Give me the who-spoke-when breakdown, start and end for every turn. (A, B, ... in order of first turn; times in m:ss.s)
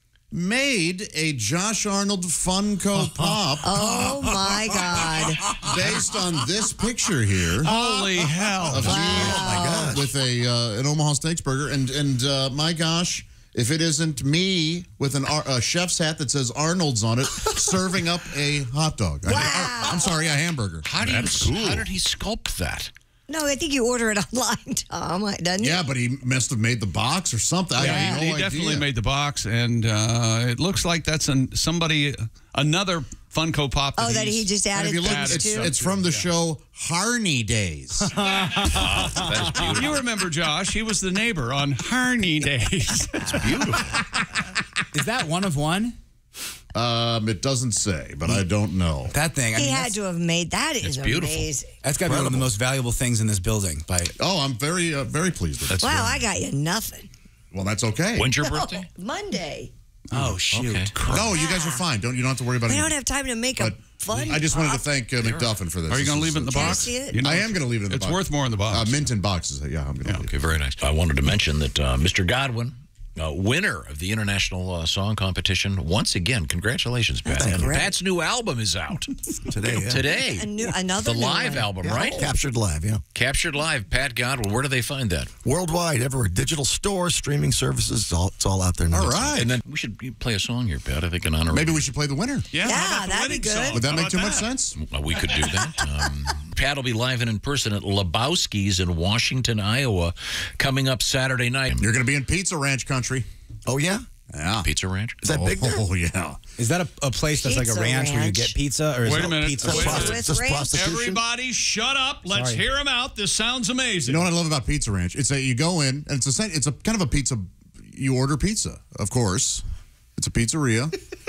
0:00.3-0:07.8 A
0:03.6-0:05.7 B
0:07.6-0:09.0 C
0:08.7-0:10.0 D
0:08.7-0:21.8 A
0:08.9-0:10.0 B
0:19.3-0:20.2 B
0:20.8-0:22.9 E
0:23.3-0:25.8 B
0:25.6-0:28.9 A
0:27.8-0:36.3 C
0:27.8-0:28.2 B
0:34.0-0:35.7 B
0:34.7-0:38.1 A
0:38.3-0:38.6 F
0:38.6-0:40.0 E
0:39.6-0:43.8 C
0:43.2-0:44.0 E
0:44.9-0:46.0 F
0:46.7-0:49.1 A
0:49.1-0:49.9 F
0:49.6-0:51.7 B
0:50.8-0:51.5 E
0:51.8-0:54.1 F
0:54.2-0:56.2 A
0:55.7-0:56.1 E
0:55.8-0:57.1 B
0:57.5-0:58.3 A
0:58.2-0:58.9 E
0:58.4-0:59.7 B
1:00.1-1:00.9 F
1:00.5-1:01.3 E
1:01.1-1:03.0 A
1:01.1-1:01.8 B
1:02.6-1:04.8 B
1:03.6-1:10.3 A
1:05.9-1:09.0 C
1:06.5-1:07.2 B
1:10.3-1:22.2 E
1:17.3-1:17.9 B
1:17.4-1:17.7 D
1:19.5-1:20.0 D
1:20.2-1:22.3 B
1:21.8-1:23.0 D
1:23.2-1:25.3 E
1:25.4-1:29.3 D
1:28.9-1:29.5 A
1:29.3-1:31.8 E
1:31.5-1:32.5 A
1:32.5-1:34.5 C
1:32.6-1:33.9 B
1:33.7-1:34.8 A
1:34.8-1:41.9 E
1:35.3-1:35.7 C
1:41.8-1:43.3 A
1:43.7-1:44.0 D
1:44.3-1:44.7 A
1:44.6-1:45.2 E
1:45.2-1:45.8 D
1:45.3-1:46.4 A
1:46.6-1:50.2 F
1:47.4-1:48.6 B
1:49.0-1:54.3 C
1:49.6-1:51.2 D
1:49.7-1:50.9 B
1:52.3-1:52.6 F
1:54.1-1:59.6 A
2:00.2-2:00.9 A